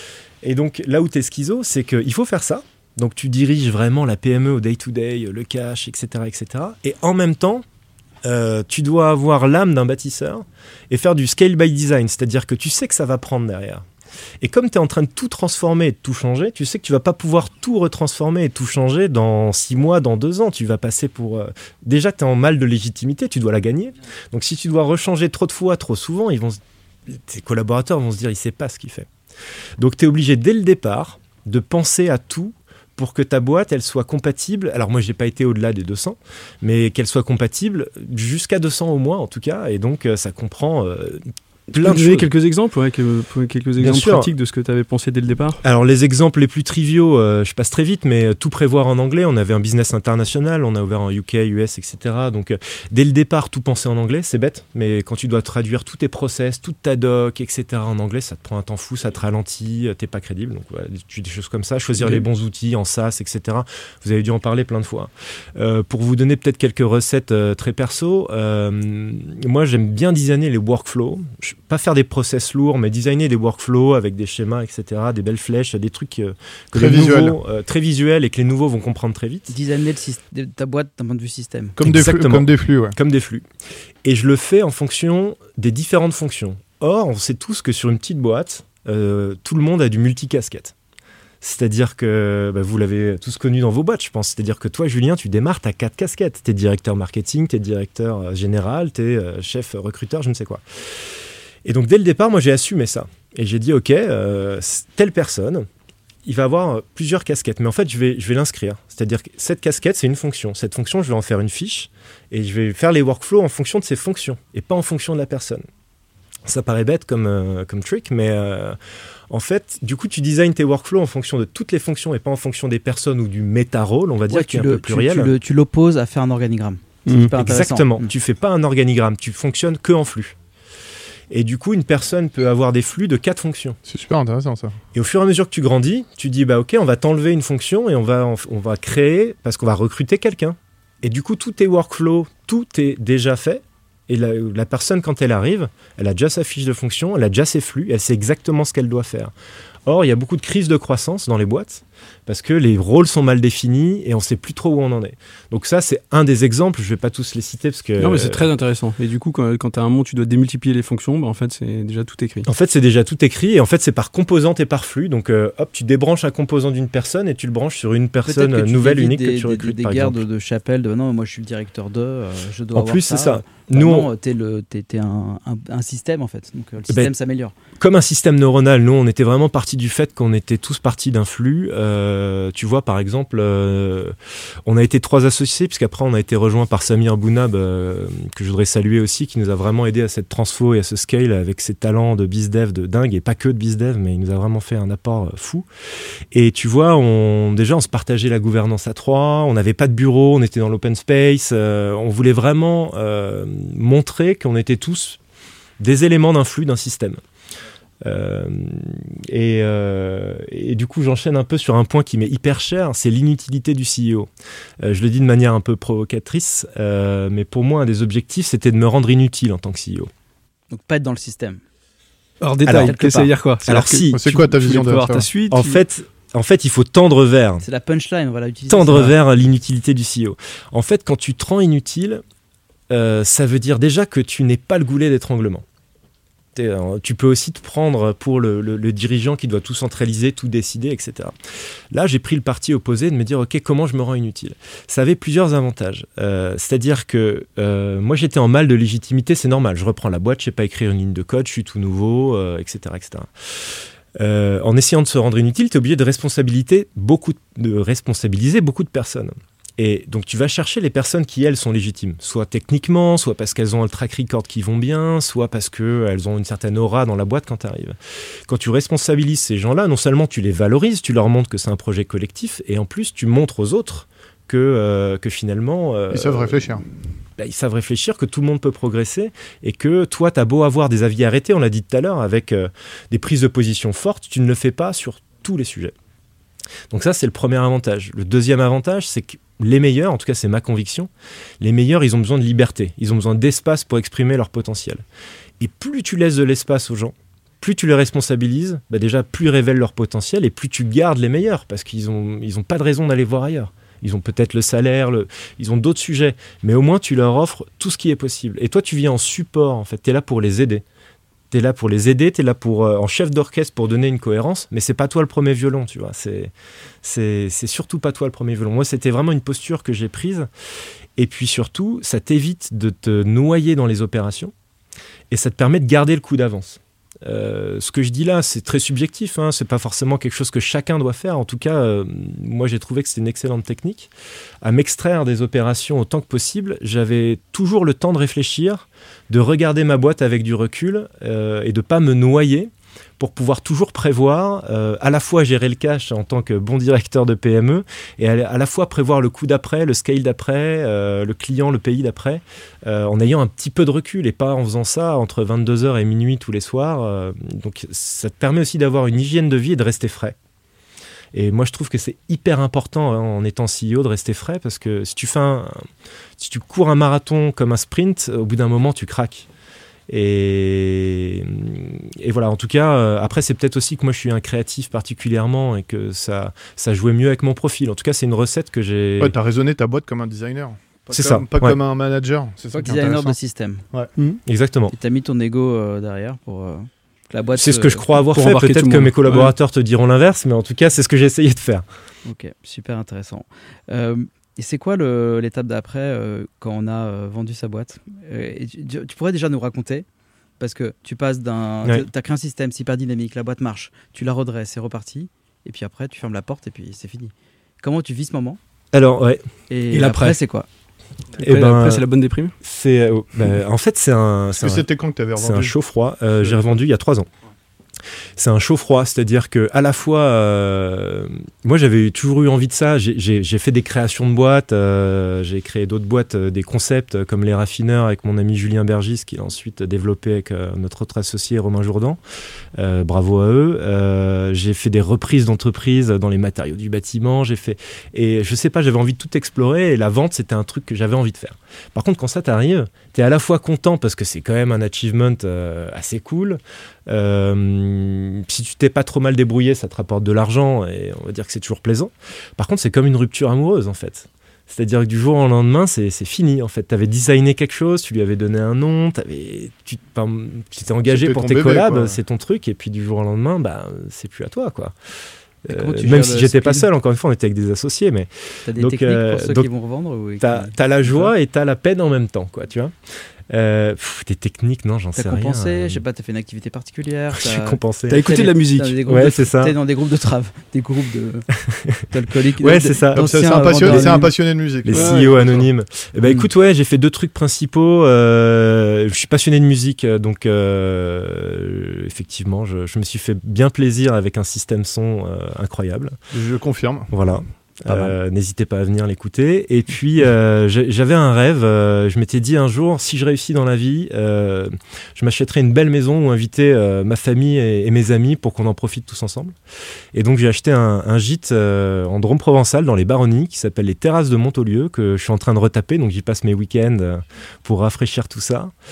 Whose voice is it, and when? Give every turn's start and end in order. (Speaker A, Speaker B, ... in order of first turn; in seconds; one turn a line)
Speaker A: 0.4-7.6
Speaker A: 8.2-13.8
Speaker A: 14.4-29.1
Speaker A: 29.8-42.3
Speaker B: 41.7-45.6
Speaker A: 43.8-44.3
Speaker A: 45.6-79.5
Speaker C: 76.7-77.4
Speaker D: 79.5-81.8
Speaker C: 81.8-83.0
Speaker A: 81.8-83.5
Speaker A: 84.0-90.7
Speaker A: 91.4-105.7
Speaker A: 106.2-115.7
Speaker A: 116.5-118.8
Speaker A: 119.3-125.3
Speaker D: 124.3-128.1
Speaker A: 127.3-130.4
Speaker A: 131.3-133.8
Speaker C: 133.9-134.8
Speaker A: 134.9-149.3
Speaker A: 149.9-158.5
Speaker B: 158.0-162.5
Speaker A: 162.5-170.2
Speaker D: 168.3-177.5
Speaker A: 172.7-174.1
Speaker A: 177.8-195.7
Speaker A: 196.3-205.2
Speaker A: 205.8-207.2
Speaker A: 208.0-214.3
Speaker A: 214.8-220.1
Speaker D: 220.7-221.6
Speaker B: 222.4-225.8
Speaker A: 222.7-224.2
Speaker D: 222.9-223.3
Speaker C: 224.1-225.3
Speaker A: 225.5-227.6
Speaker D: 227.6-229.2
Speaker A: 228.7-232.2
Speaker A: 232.9-235.7
Speaker A: 236.6-241.3
Speaker A: 241.9-276.8
Speaker C: 276.1-276.9
Speaker A: 277.4-285.9
Speaker A: 286.9-291.1
Speaker A: 291.6-295.0
Speaker A: 295.6-310.8
Speaker A: 311.5-316.5
Speaker A: 317.0-320.5
Speaker A: 321.2-324.5
Speaker A: 325.3-334.1
Speaker A: 334.6-360.4
Speaker A: 361.3-365.9
Speaker A: 366.4-369.5
Speaker A: 370.1-379.3
Speaker C: 379.2-383.4
Speaker A: 381.1-381.8
Speaker D: 382.8-383.9
Speaker A: 384.4-384.9
Speaker D: 384.9-388.1
Speaker A: 387.6-391.9
Speaker B: 388.3-389.6
Speaker D: 392.2-400.1
Speaker D: 400.6-408.6
Speaker A: 408.9-409.5
Speaker D: 409.7-410.7
Speaker B: 409.9-410.4
Speaker B: 411.4-412.5
Speaker A: 411.4-412.0
Speaker A: 412.6-414.9
Speaker C: 414.6-415.7
Speaker A: 415.4-417.3
Speaker A: 418.4-432.2
Speaker A: 432.8-464.9
Speaker C: 461.1-462.2
Speaker A: 465.6-469.7
Speaker D: 465.7-466.9
Speaker D: 468.7-471.3
Speaker A: 470.4-472.9
Speaker A: 473.5-476.0
Speaker D: 475.2-481.5
Speaker A: 477.4-478.2
Speaker B: 478.1-479.2
Speaker A: 479.1-479.8
Speaker A: 481.6-482.0
Speaker D: 482.1-484.3
Speaker A: 482.6-484.2
Speaker C: 483.2-485.7
Speaker A: 484.8-496.1
Speaker B: 484.9-485.4
Speaker C: 496.3-497.1
Speaker A: 497.1-509.6
Speaker D: 497.9-498.1
Speaker A: 510.1-518.7